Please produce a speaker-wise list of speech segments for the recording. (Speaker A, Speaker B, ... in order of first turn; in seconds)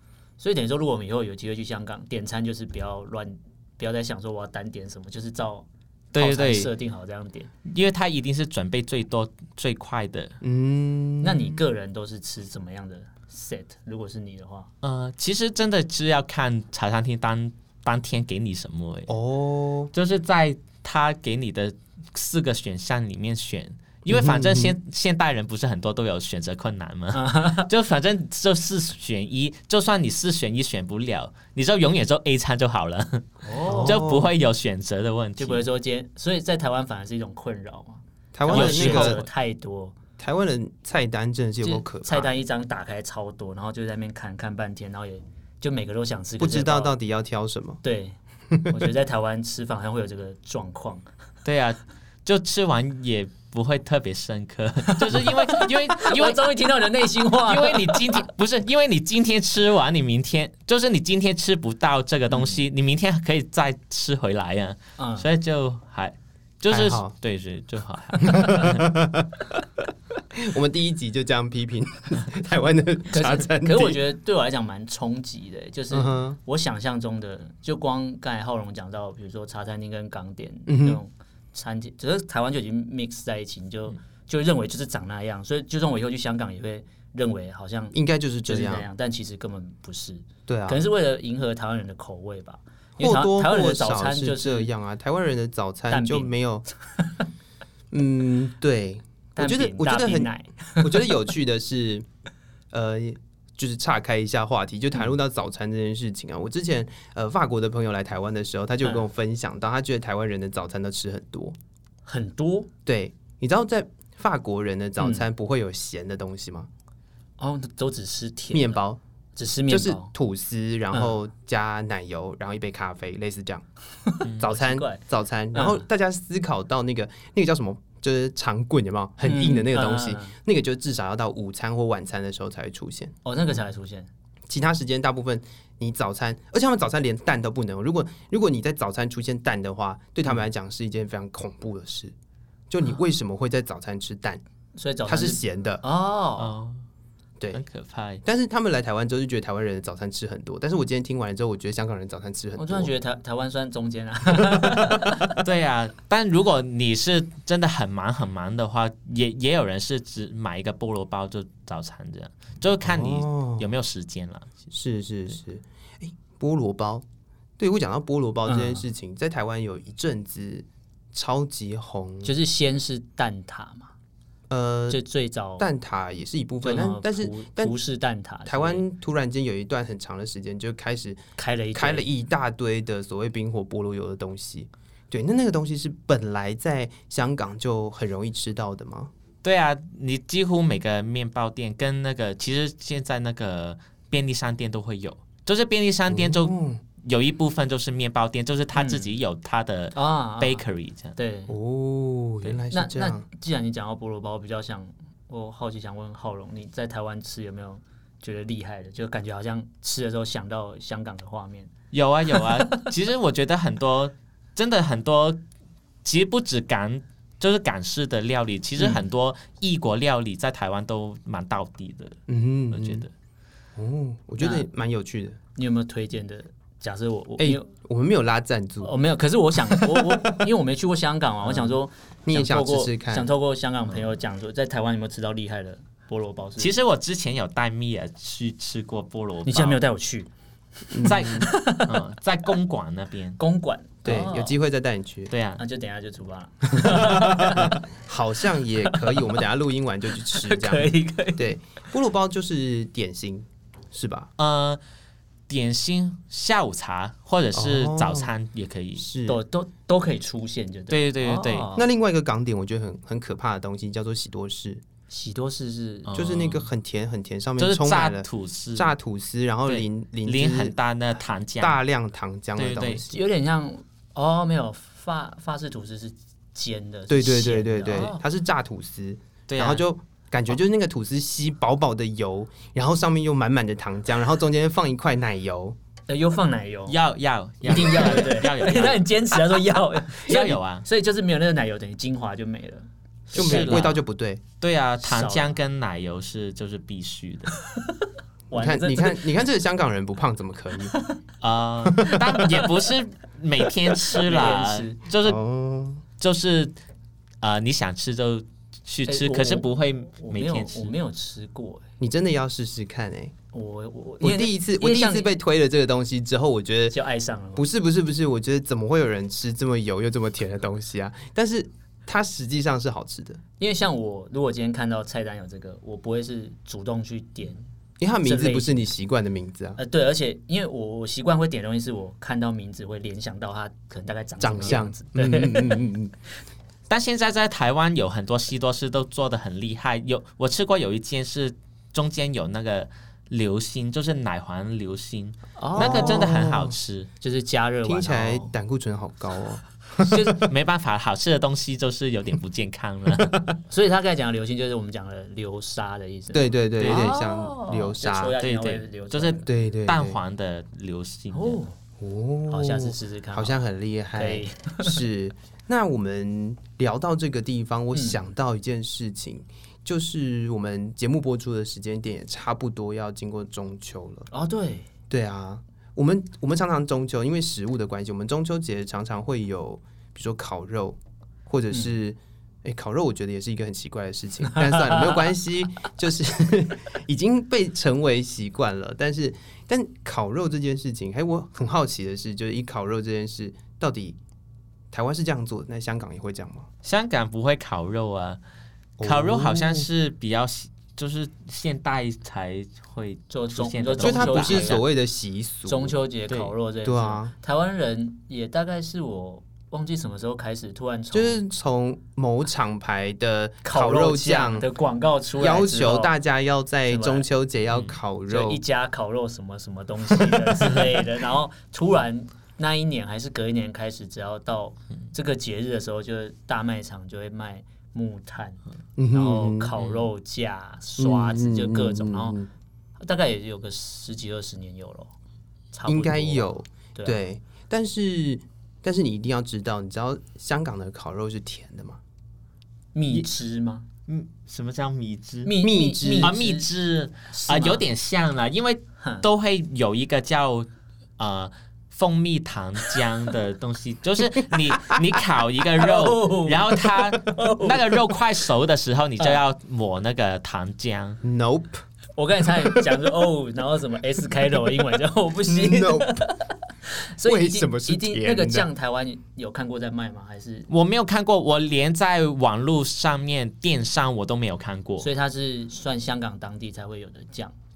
Speaker A: 0.4-7.5, 11.2-14.7, 27.1-27.7, 33.4-34.1, 35.4-40.0, 41.6-47.0, 47.8-48.2, 48.7-51.0, 54.9-58.2, 62.3-62.6, 65.0-65.3, 73.1-94.7, 95.9-96.3, 99.3-101.1, 112.0-112.7, 115.0-115.3, 117.4-118.8, 119.3-120.1, 124.4-125.0, 125.5-125.8, 129.2-130.3, 133.2-134.1, 144.8-146.5, 152.6-155.3, 168.4-168.8, 172.2-173.9, 174.9-175.7, 176.6-178.8, 181.4-182.1, 198.7-199.1, 199.9-200.6, 201.2-201.5, 202.7-211.7, 212.3-212.8, 224.4-224.7, 225.6-227.7, 228.8-236.7, 239.4-240.3, 241.0-242.0, 243.4-244.6, 245.6-247.8, 248.8-249.3, 250.1-251.5, 259.2-261.9, 265.1-266.1, 273.1-278.2, 286.1-287.0, 287.6-293.9, 295.0-295.6, 298.5-299.2, 300.9-301.2, 304.0-305.0, 309.1-311.8, 313.5-315.3, 316.9-317.6, 323.6-327.6, 328.2-328.9, 329.8-335.9, 345.6-346.3, 347.2-348.5, 350.1-350.4, 353.7-359.5, 361.3-361.7, 362.5-363.6, 364.1-365.0, 367.9-368.2, 374.3-374.9, 384.5-385.2, 403.3-404.8, 405.7-411.4, 413.6-416.1, 416.9-417.3, 418.3-428.6, 429.1-432.4, 433.0-435.1, 435.7-437.2, 442.9-443.8, 445.4-446.7, 447.3-447.9, 455.8-458.1, 462.2-470.7, 475.0-477.5
Speaker B: 6.1-6.7, 7.6-10.3, 14.8-19.1, 19.9-35.6, 38.5-39.3, 51.4-56.5, 57.4-68.8, 146.4-146.8, 147.5-148.2, 155.4-164.5, 189.4-201.2, 211.9-215.4, 216.0-222.2, 222.7-223.1, 236.6-239.8, 241.0-243.4, 245.3-245.6, 254.4-254.8, 255.5-259.1, 260.9-261.7, 266.1-266.7, 267.6-268.9, 269.7-271.8, 272.6-273.0, 279.5-279.8, 286.9-289.1, 290.2-290.8, 293.3-294.0, 294.6-297.5, 301.4-305.4, 306.2-306.7, 307.4-310.9, 336.9-347.1, 350.2-353.4, 356.8-357.2, 358.4-361.6, 396.8-398.4, 399.0-404.8, 444.1-445.5, 446.2-461.2, 470.7-475.1
Speaker C: 10.4-11.6, 19.1-19.9, 24.1-24.7, 33.6-34.3, 38.3-39.2, 40.2-42.3, 46.4-47.8, 48.5-48.8, 66.7-67.1, 68.3-69.6, 70.3-74.0, 75.9-76.4, 80.7-81.0, 87.9-88.8, 90.5-90.8, 93.0-96.6, 97.9-100.3, 100.8-102.0, 102.7-111.5, 112.8-116.7, 118.5-119.0, 119.7-123.6, 124.4-133.1, 134.5-142.1, 142.7-144.4, 145.1-145.8, 148.2-152.9, 154.4-154.9, 162.8-163.7, 164.7-167.0, 167.6-172.3, 174.5-175.0, 175.6-177.7, 178.4-181.2, 181.7-189.1, 196.1-196.8, 201.5-203.2, 222.3-223.0, 223.8-225.4, 227.4-228.9, 229.7-230.4, 231.4-233.3, 240.9-241.4, 244.0-245.3, 246.7-254.3, 257.5-258.3, 259.0-259.4, 261.7-264.8, 266.1-270.8, 271.6-273.2, 277.1-285.8, 293.3-294.4, 298.5-300.9, 301.9-302.2, 305.2-306.0, 312.0-313.3, 314.2-317.0, 317.6-323.4, 328.0-329.8, 334.4-336.1, 345.7-346.7, 347.8-350.3, 356.3-358.4, 359.4-360.2, 362.0-374.3, 375.1-394.2, 394.9-396.7, 399.0-399.9, 404.0-405.9, 406.8-407.3, 411.1-414.7, 415.4-418.6, 420.1-420.9, 429.0-429.7, 431.0-432.5, 435.9-442.0, 445.6-446.3, 461.2-461.8, 462.5-462.9, 465.4-466.3, 467.2-468.7